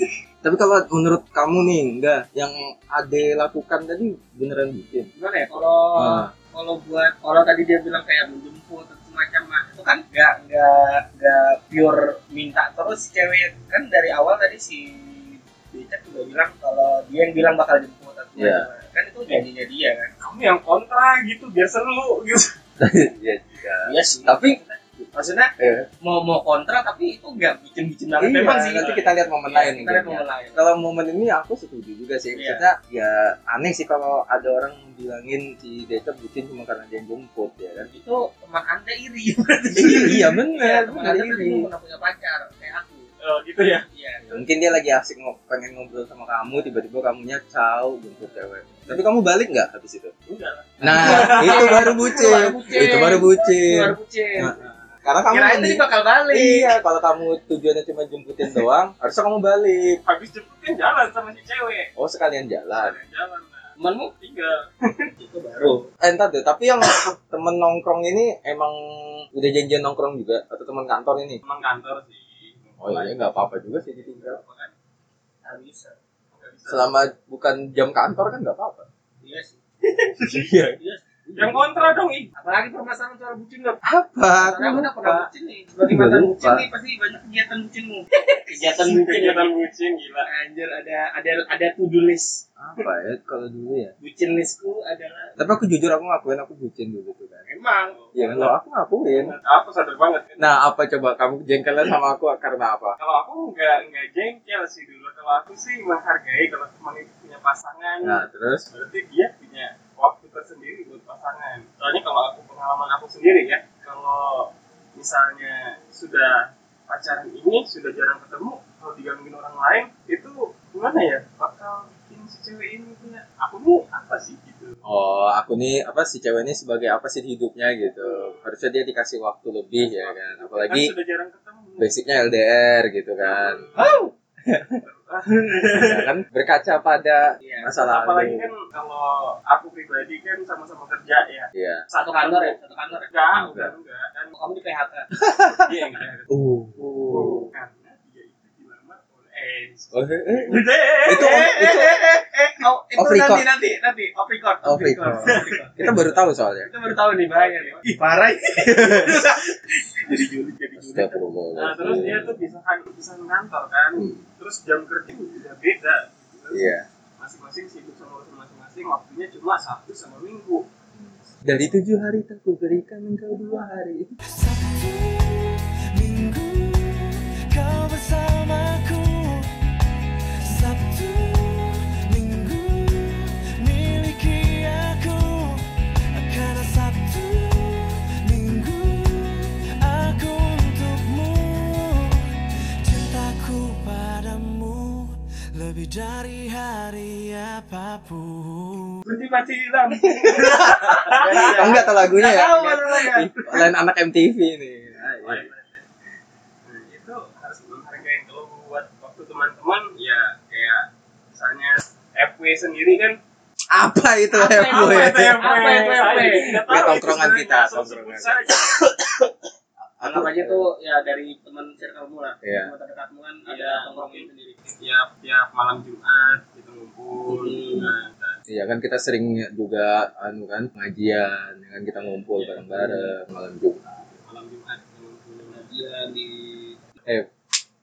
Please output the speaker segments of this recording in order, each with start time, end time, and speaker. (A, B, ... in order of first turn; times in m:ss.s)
0:00.4-0:05.1 A
0:05.2-0:20.1 B
0:06.0-0:06.3 A
0:18.4-0:18.7 A
0:20.2-0:22.5 C
0:22.8-0:25.0 A
0:23.8-0:24.6 B
0:25.1-0:28.9 B
0:25.6-0:25.9 A
0:28.2-0:37.9 A
0:28.4-0:29.2 C
0:29.5-0:30.6 B
0:32.3-0:32.6 B
0:37.9-0:43.1 B
0:39.7-0:41.7 A
0:43.2-0:43.9 C
0:43.9-0:44.4 B
0:44.3-0:50.1 A
0:50.3-0:52.5 C
0:50.8-1:00.0 A
0:51.0-0:54.5 B
0:55.3-0:56.8 B
1:00.0-1:01.9 C
1:02.0-1:03.0 A
1:02.7-1:05.0 C
1:03.8-1:04.1 B
1:05.2-1:05.9 B
1:06.0-1:11.4 A
1:11.4-1:14.7 C
1:12.8-1:14.4 A
1:15.4-1:16.0 B
1:16.3-1:17.0 C
1:16.7-1:18.9 A
1:19.2-1:21.6 B
1:20.3-1:20.8 A
1:21.3-1:21.6 A
1:21.4-1:22.3 C
1:22.4-1:23.8 B
1:23.8-1:25.3 A
1:24.4-1:29.5 B
1:25.8-1:26.7 A
1:28.6-1:30.3 C
1:30.2-1:32.8 B
1:32.6-1:33.9 A
1:34.0-1:35.4 B
1:35.4-1:37.4 A
1:37.5-1:38.0 B
1:37.9-1:38.5 C
1:38.2-1:39.3 A
1:39.1-1:40.5 C
1:40.4-1:43.0 A
1:43.0-2:04.8 C
1:48.0-1:48.7 A
2:04.8-2:10.9 A
2:08.0-2:08.4 C
2:09.8-2:12.0 C
2:11.8-2:14.8 A
2:13.2-2:13.9 C
2:13.8-2:14.1 B
2:14.8-2:16.1 C
2:15.7-2:18.5 A
2:17.4-2:17.7 B
2:17.8-2:21.5 C
2:21.5-2:21.8 A
2:21.9-2:23.1 B
2:22.0-2:24.4 C
2:23.3-2:23.7 A
2:24.4-2:25.1 B
2:25.2-2:25.7 A
2:25.6-2:26.3 C
2:26.3-2:27.4 A
2:26.8-2:27.5 B
2:27.1-2:31.4 C
2:29.9-2:32.0 A
2:30.5-2:36.1 B
2:33.0-2:33.4 A
2:34.6-2:36.7 A
2:35.2-2:35.6 C
2:36.6-2:41.2 B
2:37.3-2:37.8 C
2:38.8-2:39.2 A
2:40.8-2:42.4 A
2:41.6-2:50.7 C
2:44.0-2:44.2 A
2:46.5-2:46.9 A
2:51.4-2:54.1 A
2:54.4-2:59.5 D
3:00.5-3:19.0 D
3:19.1-3:23.6 B
3:20.0-3:21.6 C
3:20.0-3:25.4 A
3:25.2-3:25.9 C
3:26.6-3:33.2 C
3:33.7-3:35.4 A
3:34.3-3:36.5 B
3:34.6-3:38.6 C
3:36.4-3:38.5 A
3:40.0-3:40.6 A
3:40.0-3:44.8 B
3:42.4-3:42.7 A
3:43.5-3:44.3 C
3:44.8-3:48.4 C
3:47.3-3:47.9 B
3:48.5-3:53.8 A
3:51.9-3:53.0 C
3:54.1-3:55.7 C
3:55.5-3:56.8 B